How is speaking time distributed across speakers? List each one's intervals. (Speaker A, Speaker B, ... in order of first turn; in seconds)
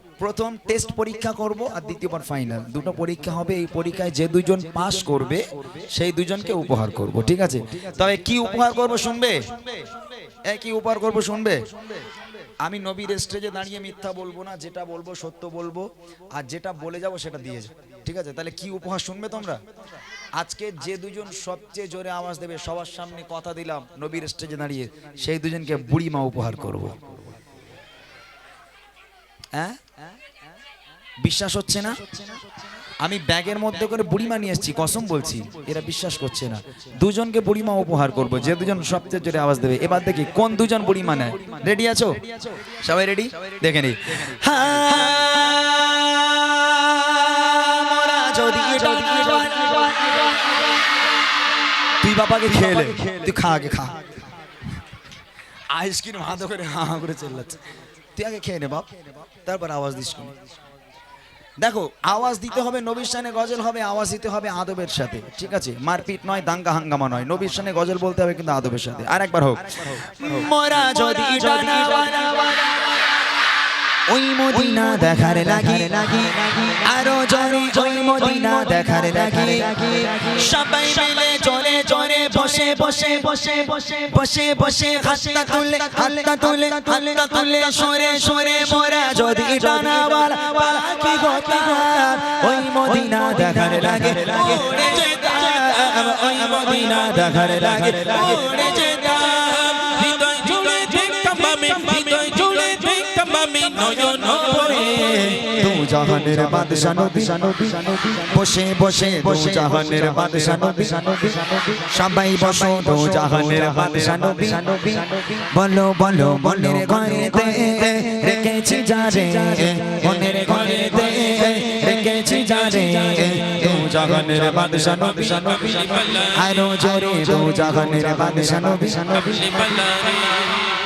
Speaker A: 0.2-9.4, 10.5-11.6, 12.6-19.6, 20.4-27.2, 31.2-32.1, 33.0-45.6, 48.8-49.9, 52.0-53.9, 55.7-57.6, 58.2-60.4, 61.6-70.5, 86.7-87.4, 105.5-107.5, 108.3-110.3, 112.2-114.3, 123.4-125.1, 127.1-128.8
Speaker B: 44.6-50.7, 52.3-53.9, 70.2-73.0, 74.1-99.6, 104.9-129.9
Speaker C: 98.5-105.5, 125.3-126.3, 129.4-130.6